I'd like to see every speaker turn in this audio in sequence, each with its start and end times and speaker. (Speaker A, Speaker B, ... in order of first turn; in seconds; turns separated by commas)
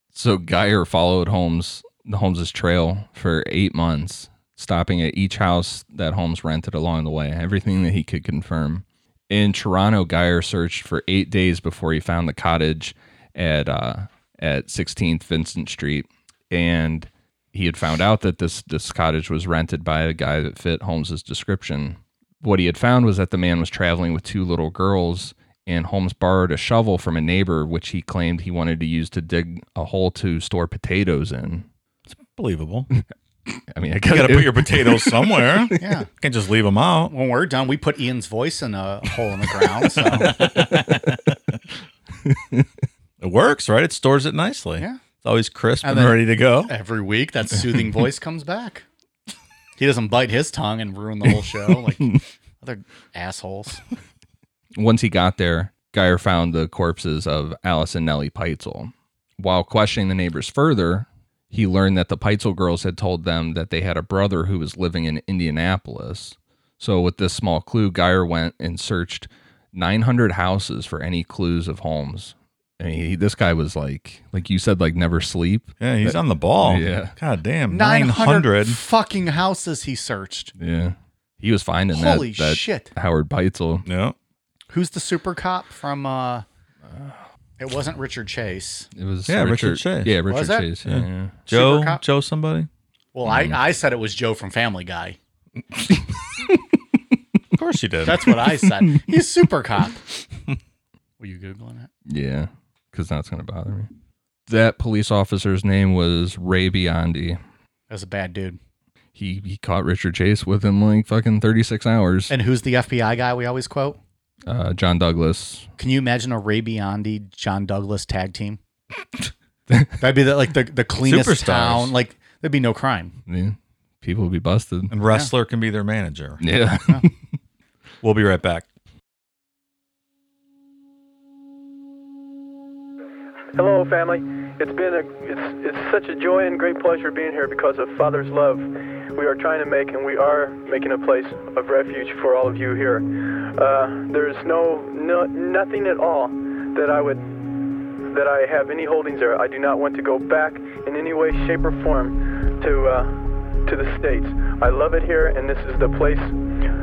Speaker A: 0.1-31.7, Speaker B: 32.1-32.9, Speaker A: 33.5-35.7, Speaker B: 34.1-37.1, Speaker C: 35.8-36.1, Speaker C: 37.1-40.4, Speaker B: 40.0-41.6, Speaker A: 40.3-41.0, Speaker A: 42.2-42.7, Speaker B: 43.2-46.7, Speaker C: 45.8-48.9, Speaker C: 49.8-53.8, Speaker A: 54.8-77.1, Speaker B: 75.8-78.8, Speaker C: 77.7-80.5, Speaker A: 80.6-83.9, Speaker C: 81.9-82.9, Speaker B: 83.8-84.2, Speaker C: 84.7-86.5, Speaker A: 86.9-87.2, Speaker C: 87.6-88.9, Speaker A: 89.0-91.4, Speaker B: 89.3-90.2, Speaker C: 90.3-90.7, Speaker B: 90.8-92.7, Speaker C: 91.5-92.0, Speaker C: 93.1-95.2, Speaker A: 93.2-93.6, Speaker B: 97.5-98.4, Speaker C: 98.0-100.0, Speaker C: 101.2-101.9, Speaker A: 102.1-103.9, Speaker A: 104.5-107.4, Speaker C: 107.9-108.6, Speaker A: 109.2-112.3, Speaker C: 112.3-114.0, Speaker A: 114.5-115.7, Speaker C: 115.8-118.6, Speaker A: 119.7-120.0, Speaker C: 120.0-123.2, Speaker B: 121.0-122.0, Speaker A: 123.3-125.0, Speaker B: 124.9-126.4, Speaker A: 126.4-127.2, Speaker B: 128.0-128.7, Speaker D: 133.6-147.2, Speaker D: 148.1-156.3